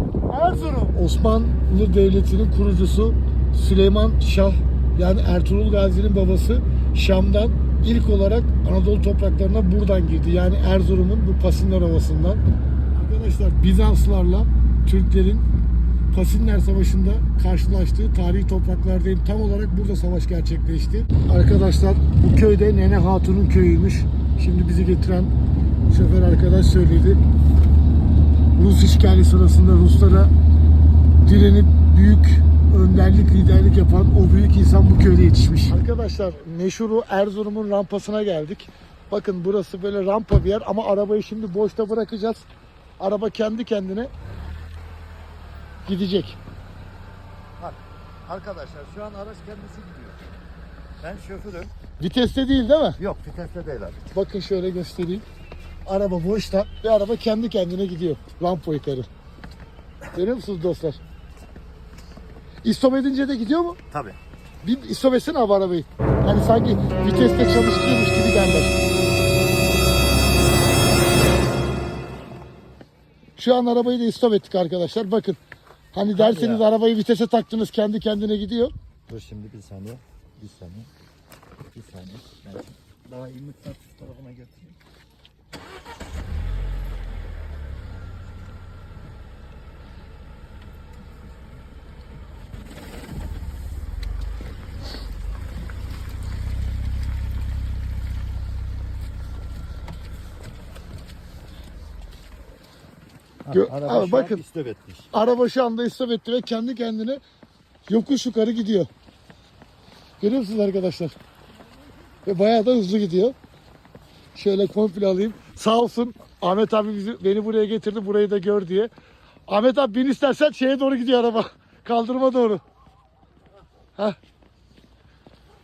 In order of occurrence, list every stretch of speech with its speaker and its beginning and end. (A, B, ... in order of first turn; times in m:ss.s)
0:00.3-0:12.4 A
0:13.0-0:15.5 A
0:16.1-0:25.3 A
0:25.9-0:27.2 A
0:28.6-0:30.3 A
0:31.2-0:42.4 A
0:43.0-0:44.1 A
0:45.8-0:46.4 A
0:47.6-0:50.3 B
0:51.0-0:51.7 B
0:52.0-0:53.0 A
0:53.0-0:54.0 B
0:54.1-0:55.3 A
0:55.8-0:59.1 A
1:00.1-1:01.0 A
1:02.6-1:03.8 A
1:03.9-1:04.2 B
1:04.6-1:08.8 A
1:13.4-1:15.4 A
1:15.9-1:18.7 A
1:16.1-1:16.6 B
1:19.1-1:20.9 B
1:21.7-1:24.8 B
1:31.2-1:31.5 B
1:43.4-1:45.1 B
1:43.5-1:44.4 A
1:45.1-1:47.2 A
1:47.9-1:48.9 A
1:50.2-1:51.2 A
1:52.2-1:53.4 A
1:54.3-1:58.9 A
1:59.5-2:02.6 A